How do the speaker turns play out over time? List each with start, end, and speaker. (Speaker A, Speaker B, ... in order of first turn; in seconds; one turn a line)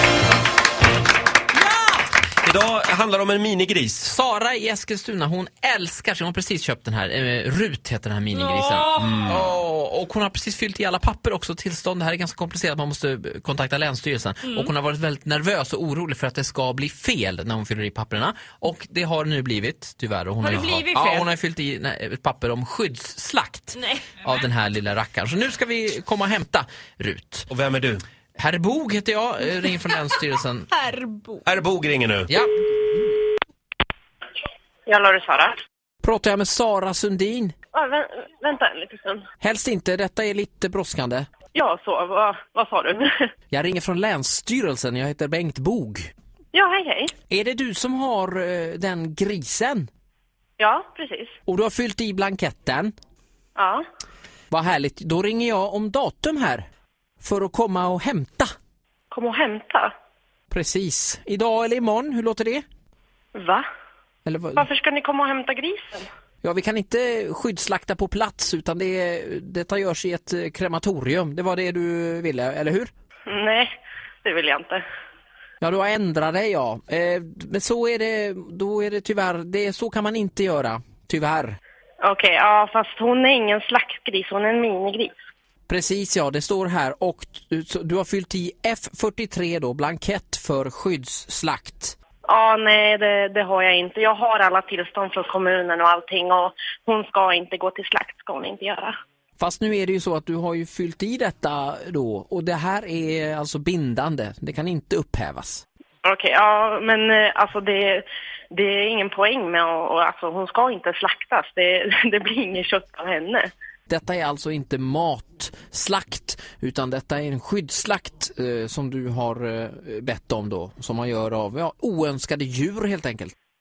Speaker A: 2.4-4.1
Speaker B: 4.0-27.5
Speaker C: 8.3-9.1
Speaker A: 9.0-9.4
Speaker C: 20.4-21.3
Speaker C: 23.8-24.1
Speaker A: 27.5-28.0
Speaker B: 28.4-30.7
Speaker C: 30.7-31.4
Speaker A: 31.4-32.3
Speaker B: 32.3-32.5
Speaker D: 34.9-35.6
Speaker B: 36.0-37.5
Speaker D: 37.7-39.2
Speaker B: 39.4-41.3
Speaker D: 41.5-43.3
Speaker B: 43.5-46.1
Speaker D: 46.5-47.1
Speaker B: 47.3-49.9
Speaker D: 50.6-51.3
Speaker B: 51.5-52.9
Speaker D: 53.6-53.8
Speaker B: 54.5-56.6
Speaker B: 57.2-58.5
Speaker D: 59.1-59.9
Speaker B: 60.5-62.6
Speaker D: 63.4-63.6
Speaker B: 64.3-64.7
Speaker D: 64.6-66.1
Speaker B: 66.4-72.9
Speaker D: 73.3-73.7
Speaker D: 74.2-74.8
Speaker B: 75.6-81.6
Speaker D: 82.0-85.1
Speaker B: 85.7-92.0
Speaker D: 92.3-98.9
Speaker B: 99.4-105.6
Speaker D: 106.0-113.5
Speaker B: 113.9-123.3